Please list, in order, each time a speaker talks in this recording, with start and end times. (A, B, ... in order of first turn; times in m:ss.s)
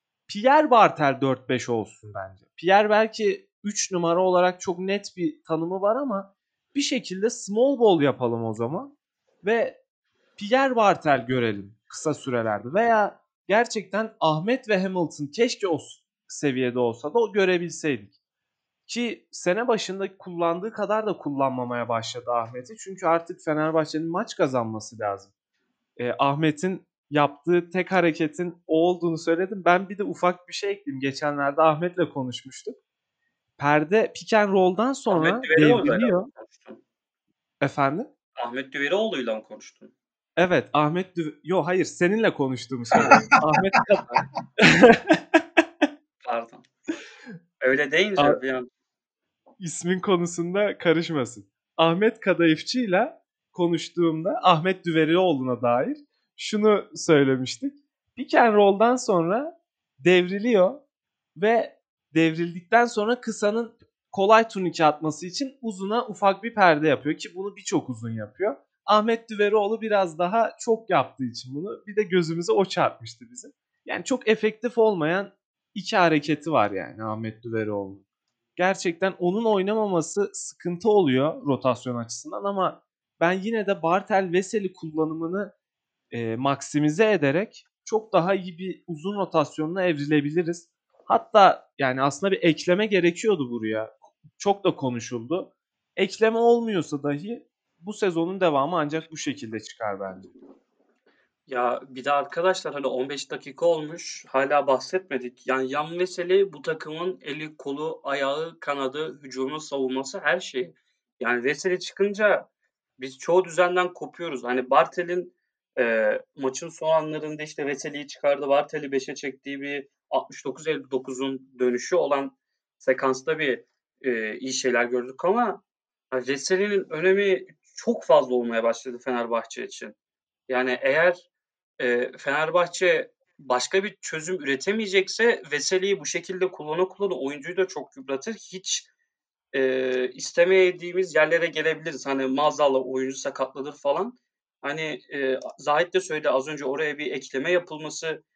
0:00.3-0:09.8 A
0:10.4-0:18.2 A
0:18.9-0:25.3 A
0:26.0-0:32.8 A
0:33.6-0:36.3 A
0:35.1-0:36.8 B
0:37.6-0:38.1 A
0:38.4-0:39.9 B
0:40.4-0:45.4 A
0:46.2-0:46.6 B
0:47.6-0:48.7 B
0:49.6-1:00.8 A
1:01.4-1:18.0 A
1:18.6-1:25.5 A
1:26.1-1:40.3 A
1:41.5-1:52.5 B
1:53.0-2:10.0 B
2:10.5-2:11.3 B
2:11.8-2:18.9 B
2:19.5-2:28.2 B